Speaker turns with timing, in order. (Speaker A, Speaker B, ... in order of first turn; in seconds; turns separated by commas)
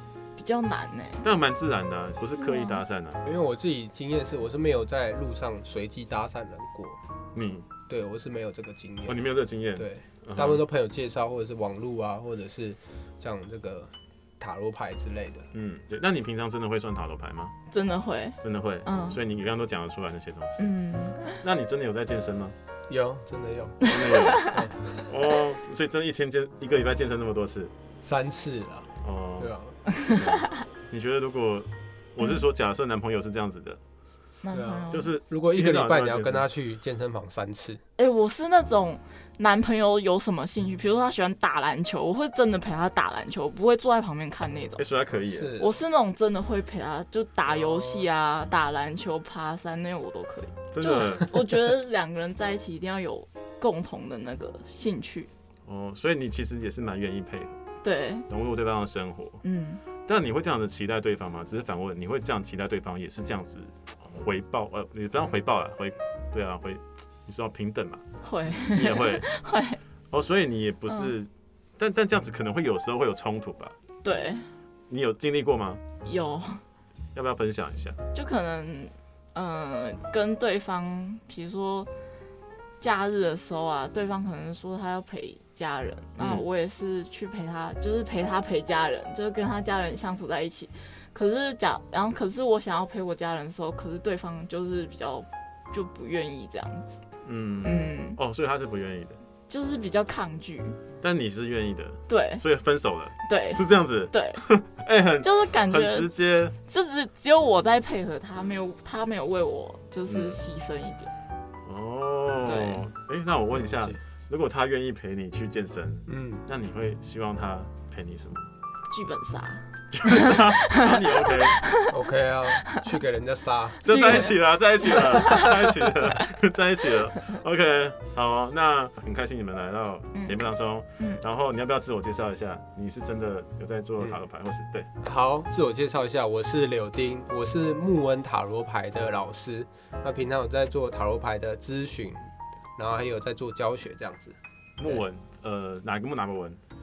Speaker A: 0.3-1.2, Speaker B: 1.2-3.2, Speaker A: 2.4-2.8, Speaker C: 3.2-7.0, Speaker B: 7.3-7.7, Speaker C: 7.9-15.5, Speaker B: 9.1-10.6, Speaker B: 15.5-17.5, Speaker A: 17.7-19.2, Speaker B: 18.4-20.7, Speaker A: 20.6-21.4, Speaker B: 21.3-22.5, Speaker C: 22.9-23.8, Speaker B: 23.8-27.7, Speaker A: 23.8-24.5, Speaker C: 24.4-25.1, Speaker C: 28.0-29.8, Speaker B: 29.0-29.6, Speaker A: 29.9-30.6, Speaker B: 30.1-33.8, Speaker A: 34.4-35.1, Speaker C: 34.5-37.8, Speaker B: 34.9-36.4, Speaker A: 38.0-44.8, Speaker B: 44.8-45.5, Speaker C: 45.3-45.7, Speaker A: 45.6-55.3, Speaker B: 50.7-51.6, Speaker B: 55.6-57.5, Speaker A: 57.8-58.2, Speaker B: 58.3-59.4, Speaker A: 59.4-59.8, Speaker B: 60.0-69.2, Speaker A: 68.2-69.8, Speaker B: 70.1-73.8, Speaker A: 70.9-71.1, Speaker A: 74.0-74.5, Speaker B: 74.9-75.8, Speaker A: 76.0-76.6, Speaker B: 77.1-78.0, Speaker A: 78.1-81.9, Speaker A: 82.8-97.0, Speaker B: 86.2-86.4, Speaker B: 97.2-99.2, Speaker A: 97.6-98.2, Speaker A: 99.5-100.8, Speaker B: 101.0-106.5, Speaker A: 102.1-102.4, Speaker A: 103.2-104.4, Speaker A: 105.2-106.1, Speaker A: 106.6-111.1, Speaker B: 110.1-110.4, Speaker B: 111.6-118.5, Speaker A: 112.4-112.8, Speaker C: 113.5-114.0, Speaker C: 116.1-116.4, Speaker A: 118.9-121.9, Speaker B: 119.9-121.6, Speaker C: 121.9-124.2, Speaker B: 123.8-134.9, Speaker A: 123.8-125.5, Speaker C: 135.0-145.0, Speaker B: 144.8-146.6